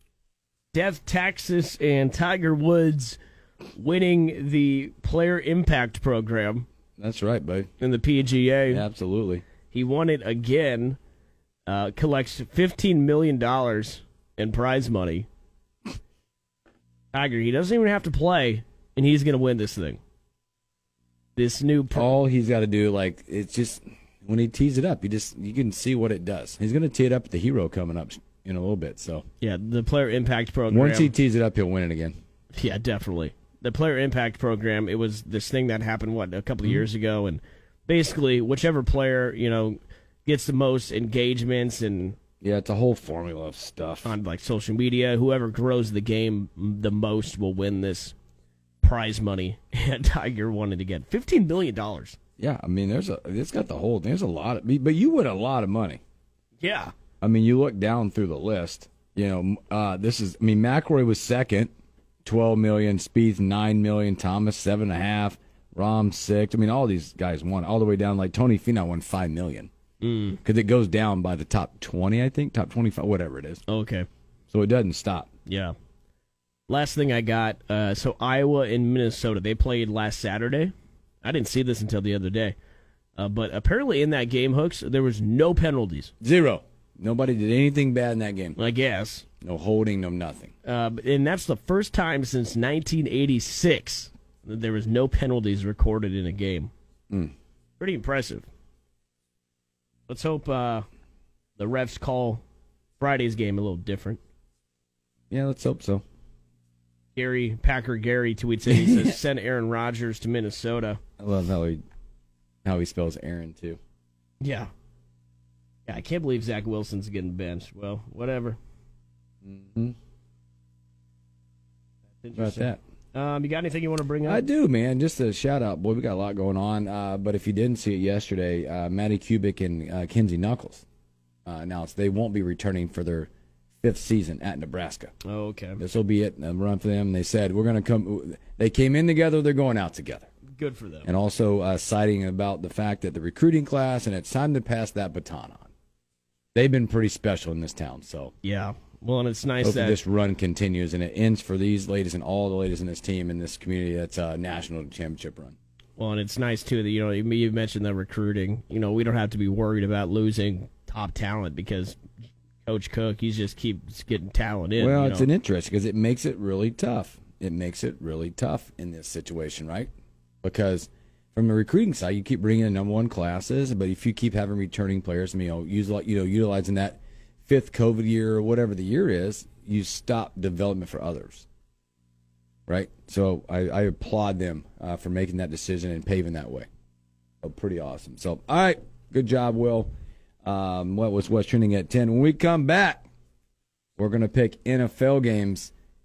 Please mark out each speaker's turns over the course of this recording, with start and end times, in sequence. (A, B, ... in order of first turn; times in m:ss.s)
0:00.7-0:03.2 A
0:03.8-0:06.7 A
0:07.0-0:07.7 B
0:07.8-0:08.8 A
0:08.7-0:09.4 B
0:09.7-0:11.0 A
0:11.7-0:15.3 A
0:17.1-0:20.0 A
0:21.4-0:22.2 A
0:21.9-0:29.2 B
0:29.4-0:31.1 A
0:30.7-0:32.1 B
0:32.5-0:42.2 A
0:42.4-0:44.2 B
0:44.0-0:48.2 A
0:48.8-0:52.2 A
0:52.4-0:56.0 B
0:56.6-0:56.9 A
0:57.2-1:01.7 B
1:02.2-1:09.7 B
1:10.0-1:10.4 A
1:10.4-1:13.6 B
1:13.7-1:14.1 A
1:14.5-1:15.3 B
1:15.5-1:15.8 A
1:16.7-1:22.6 A
1:23.2-1:26.1 A
1:26.2-1:28.6 B
1:28.6-1:29.2 A
1:29.4-1:30.5 B
1:30.6-1:36.7 A
1:37.8-1:38.5 A
1:40.1-1:40.9 A
1:41.6-1:42.4 A
1:43.0-1:44.2 A
1:45.3-1:46.0 B
1:47.2-1:51.0 A
1:48.7-1:49.1 B
1:51.2-1:51.8 B
1:52.6-1:53.8 B
1:54.4-1:54.7 A
1:55.9-1:58.6 A
1:59.4-2:00.0 B
2:02.1-2:04.4 A
2:02.4-2:02.8 B
2:04.3-2:10.8 B
2:11.5-2:13.3 B
2:13.8-2:15.1 B
2:15.3-2:15.8 A
2:15.8-2:20.3 B
2:20.6-2:21.1 A
2:21.0-2:25.7 B
2:26.6-2:28.3 B
2:28.4-2:30.0 A
2:29.6-2:35.6 B
2:36.0-2:42.0 A
2:42.6-2:45.3 A
2:44.8-2:49.9 B
2:50.4-3:01.5 B
3:02.7-3:06.7 B
3:07.4-3:09.9 B
3:10.4-3:13.0 B
3:14.0-3:15.7 B